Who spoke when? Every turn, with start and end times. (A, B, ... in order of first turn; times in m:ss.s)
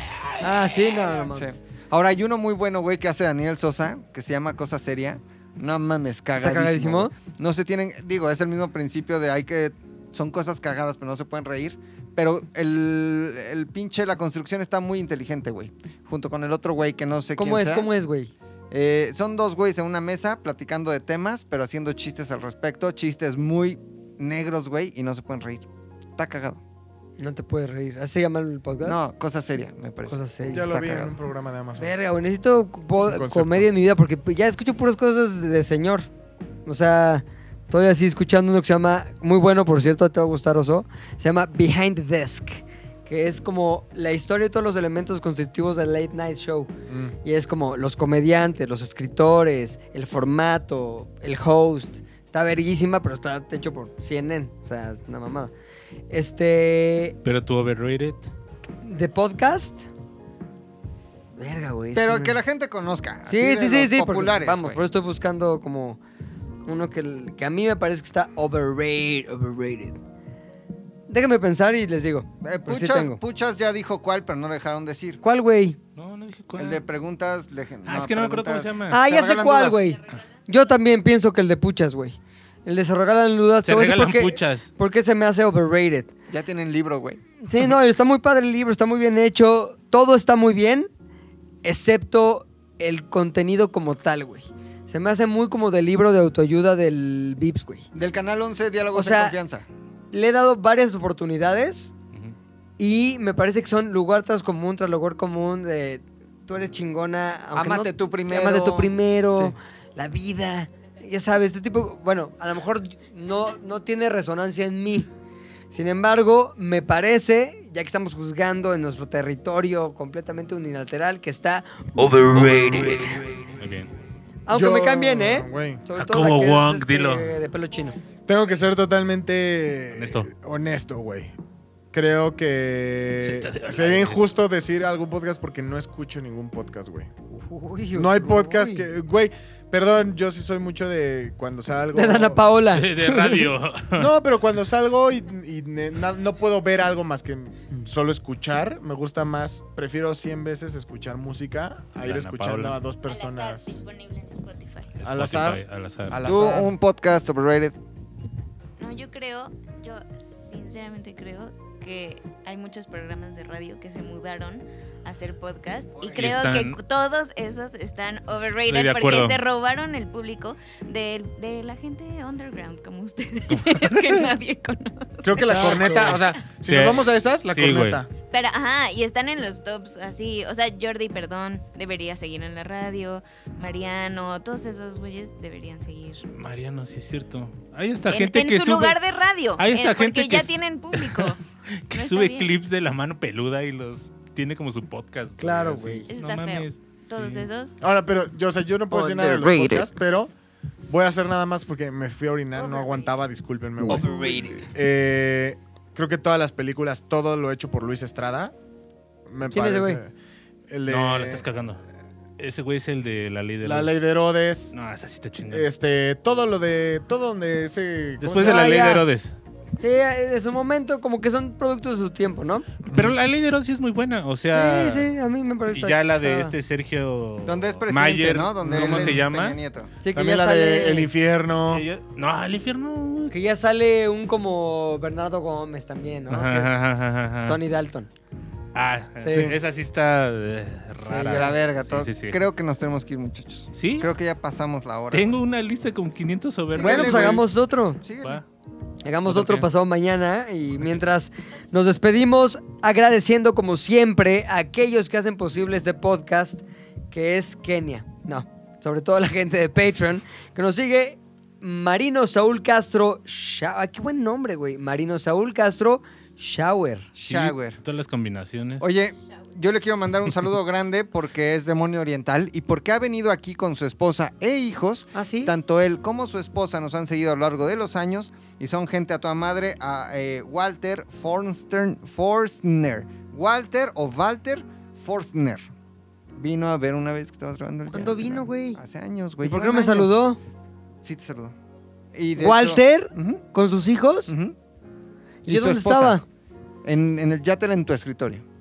0:00.4-0:01.6 A
0:01.3-0:17.9 B
0:06.4-0:07.1 A
0:17.4-0:18.3 A
0:18.7-0:25.7 B
0:26.2-0:26.6 B
0:27.2-0:29.0 A
0:28.8-0:31.2 B
0:30.1-0:30.6 A
0:30.5-0:31.9 C
0:31.8-0:36.1 A
0:33.0-0:33.7 C
0:36.7-0:46.7 A
0:46.9-0:47.2 C
0:47.2-0:55.5 A
0:56.1-0:57.2 A
0:57.2-0:58.3 D
0:58.8-0:59.9 A
1:01.4-1:02.4 A
1:01.9-1:04.8 B
1:03.3-1:06.0 A
1:06.7-1:10.0 A
1:11.1-1:13.2 A
1:12.4-1:15.2 B
1:15.2-1:15.8 A
1:16.0-1:16.8 D
1:16.6-1:19.9 B
1:17.9-1:19.0 D
1:18.9-1:26.1 A
1:23.6-1:24.7 D
1:26.3-1:27.2 B
1:27.5-1:30.9 A
1:31.6-1:37.9 A
1:37.9-1:39.7 B
1:38.9-1:39.4 A
1:40.1-1:41.9 A
1:42.8-1:55.1 A
1:47.6-1:49.6 B
1:55.7-2:03.2 A
2:02.6-2:02.9 D
2:03.6-2:03.9 D
2:04.5-2:08.0 A
2:04.5-2:05.8 C
2:06.0-2:07.3 D
2:08.3-2:11.3 C
2:09.9-2:10.3 D
2:11.9-2:17.1 C
2:13.2-2:14.2 D
2:17.3-2:18.9 A
2:17.9-2:22.4 C
2:21.9-2:23.5 A
2:22.7-2:24.1 D
2:24.0-2:33.8 C
2:32.0-2:32.8 D
2:33.1-2:34.9 E
2:35.0-2:36.2 D
2:35.0-2:36.7 C
2:36.2-2:37.8 B
2:38.8-2:56.0 E
2:46.1-2:46.8 D
2:48.3-2:49.4 D
2:53.5-2:54.3 D
2:55.2-2:58.1 C
2:55.4-2:58.0 D
2:58.3-3:06.3 E
3:06.3-3:09.0 D
3:08.1-3:11.4 E
3:09.6-3:17.5 D
3:11.9-3:12.5 E
3:15.4-3:16.1 A
3:16.1-3:17.8 E
3:17.8-3:20.3 C
3:18.9-3:19.8 A
3:20.9-3:28.5 C
3:22.6-3:23.1 E
3:23.9-3:24.5 A
3:29.3-3:30.1 C
3:29.5-3:30.0 A
3:30.7-3:31.4 C
3:30.9-3:31.8 D
3:32.4-3:34.0 D
3:33.6-3:34.7 C
3:34.7-3:35.7 D
3:35.5-3:39.0 C
3:38.2-3:39.4 D
3:38.3-3:39.0 A
3:39.8-3:42.7 A
3:42.8-3:45.1 D
3:44.5-3:46.5 A
3:45.7-3:49.6 D
3:47.4-3:49.9 B
3:48.6-3:49.2 C
3:50.0-3:51.1 A
3:50.2-3:51.8 C
3:51.7-3:53.4 D
3:53.3-3:58.1 A
3:56.3-3:57.6 D
3:58.7-4:02.4 D
3:59.2-3:59.5 A
3:59.3-3:59.6 C
4:01.0-4:01.5 A
4:01.3-4:05.3 B
4:03.8-4:04.1 D
4:05.1-4:07.4 D
4:06.7-4:07.5 B
4:06.8-4:08.0 A
4:08.0-4:08.4 B
4:09.0-4:27.1 A
4:09.3-4:09.7 D
4:27.2-4:27.8 B
4:27.2-4:28.9 D
4:28.8-4:45.7 B
4:35.1-4:35.6 A
4:46.4-4:50.1 B
4:47.9-4:48.8 A
4:49.4-4:50.4 A
4:51.0-4:51.5 B
4:52.1-4:53.4 B
4:52.4-4:54.3 A
4:54.3-4:54.6 B
4:55.5-4:56.2 A
4:55.5-4:56.2 B
4:56.8-4:58.4 B